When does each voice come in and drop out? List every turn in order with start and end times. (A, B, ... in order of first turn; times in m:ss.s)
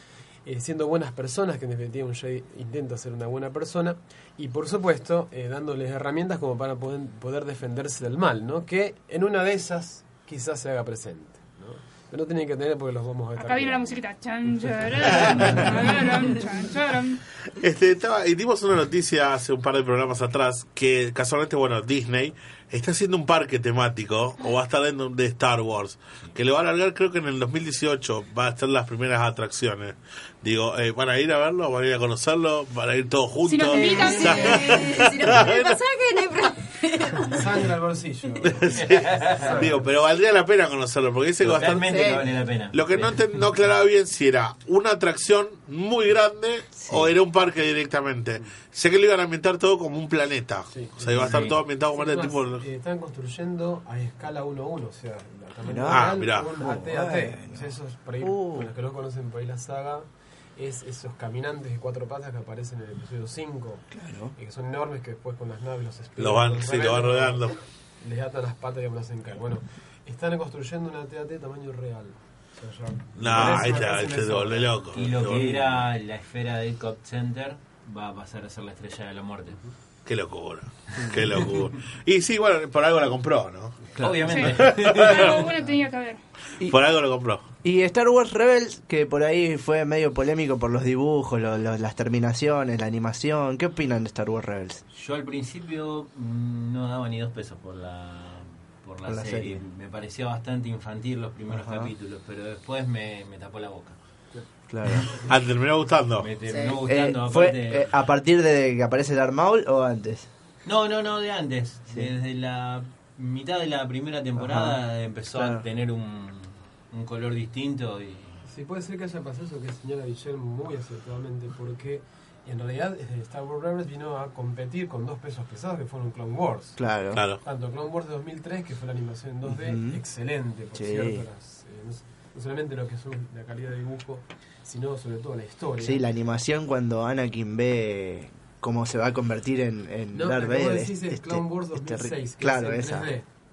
0:00.4-0:14.0 A
0:13.4-0:17.2 B
0:15.1-0:15.6 A
0:15.2-0:15.6 C
0:17.6-0:35.8 C
0:33.4-0:34.7 B
0:33.8-0:37.4 D
0:37.3-0:39.9 A
0:38.4-0:52.7 C
0:38.8-0:39.5 E
0:41.4-0:43.3 E
0:41.8-0:42.3 D
0:50.7-1:15.0 A
0:51.2-0:51.6 E
0:55.6-0:58.7 F
0:55.9-0:56.6 C
1:03.9-1:04.3 F
1:06.2-1:07.6 C
1:13.2-1:15.6 C
1:14.9-1:19.6 E
1:20.1-1:23.8 C
1:24.0-1:24.4 F
1:24.0-1:25.4 E
1:24.2-1:26.2 B
1:24.4-1:25.4 C
1:26.6-1:27.4 C
1:27.6-1:34.8 F
1:34.9-1:44.0 E
1:39.1-1:39.6 F
1:41.5-1:41.9 F
1:44.7-1:45.1 F
1:45.3-1:46.3 C
1:46.2-1:47.9 E
1:46.4-1:46.8 D
1:46.9-1:50.3 F
1:50.7-1:58.4 E
1:54.4-1:54.8 F
1:55.3-1:55.6 F
1:58.5-2:06.9 A
2:06.8-2:07.2 F
2:07.2-2:07.4 C
2:07.4-2:16.0 A
2:09.4-2:10.0 F
2:10.7-2:11.2 F
2:15.8-2:23.1 F
2:20.1-2:23.3 A